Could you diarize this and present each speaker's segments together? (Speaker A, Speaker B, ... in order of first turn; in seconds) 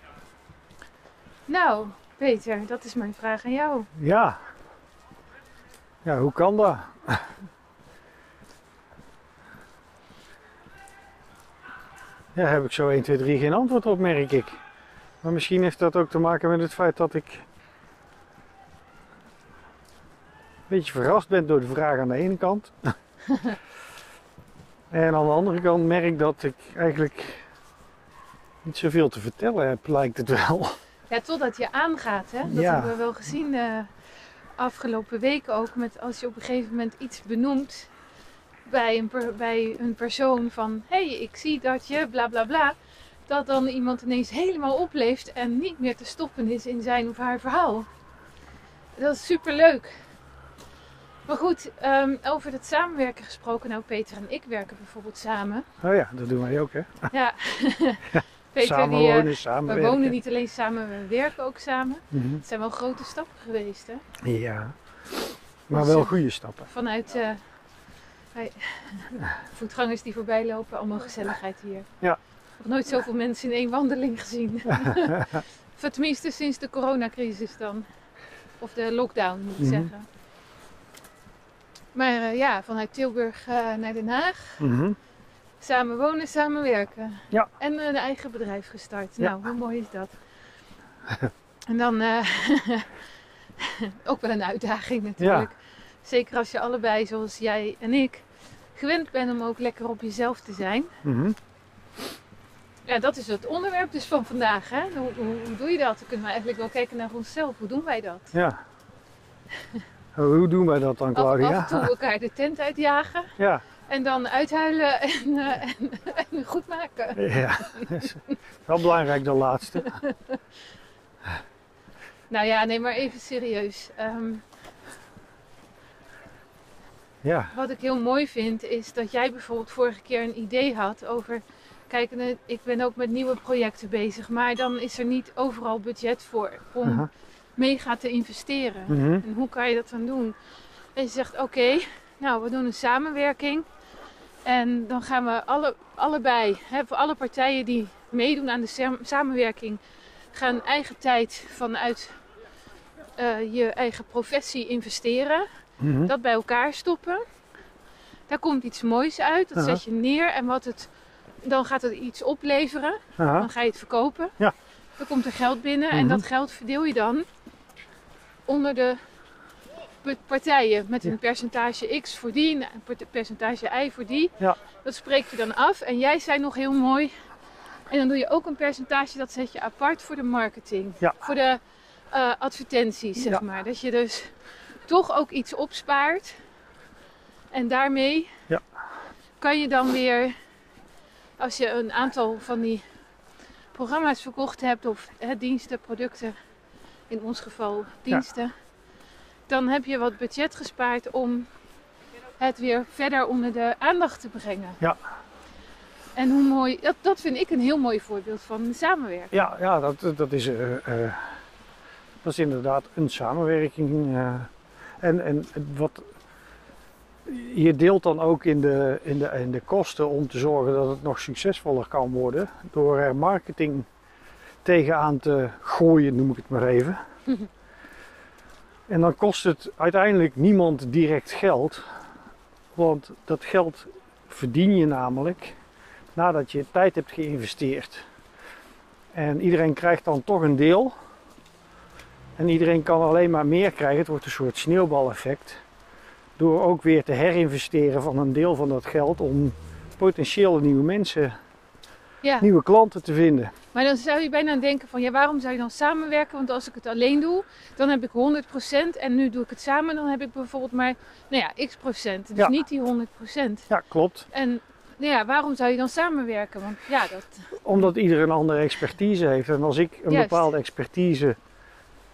Speaker A: 1.5-3.9, 31.1-33.9, 34.6-37.9, 38.7-42.8, 43.3-47.9, 49.0-49.9, 51.3-55.7, 57.1-64.0, 65.7-66.1, 66.7-67.4, 68.3-71.9, 72.6-77.9, 78.6-80.1, 81.9-84.6, 85.6-90.1, 91.7-92.9, 93.6-98.2, 98.8-101.0, 102.9-108.3, 111.1-113.3, 113.9-118.0, 119.8-120.4, 122.3-124.4, 127.5-140.4, 141.0-143.7, 144.4-149.8, 150.3-152.2, 153.2-155.5, 156.0-157.2, 158.3-160.9, 161.4-164.4, 165.0-167.2, 168.5-169.0, 170.0-177.1, 177.9-181.6, 182.1-184.3, 184.9-186.4, 187.5-188.3, 189.4-190.3, 191.4-192.8, 193.7-196.3, 197.1-198.5, 199.5-201.5, 202.4-204.8, 206.1-209.4, 253.7-263.7, 264.3-267.5, 270.1-270.5
Speaker B: 4.0-4.4, 6.0-7.3, 12.3-14.5, 15.2-17.4, 20.7-22.9, 24.9-27.4, 28.6-30.8, 32.5-32.9, 55.8-57.1, 58.1-60.2, 62.1-62.4, 64.2-64.7, 65.7-66.7, 74.8-75.4, 79.6-79.9, 84.6-85.0, 95.2-95.5, 101.0-101.4, 108.3-108.6, 110.1-111.9, 113.4-113.6, 117.2-119.9, 127.2-127.5, 138.9-139.2, 155.8-156.1, 159.6-159.8, 163.2-163.5, 165.9-166.2, 209.3-211.2, 212.2-216.0, 217.2-223.9, 224.6-227.0, 228.9-231.8, 232.7-235.5, 236.1-238.0, 239.1-240.9, 242.4-245.6, 246.4-251.3, 252.4-253.5, 263.7-264.3, 267.6-271.4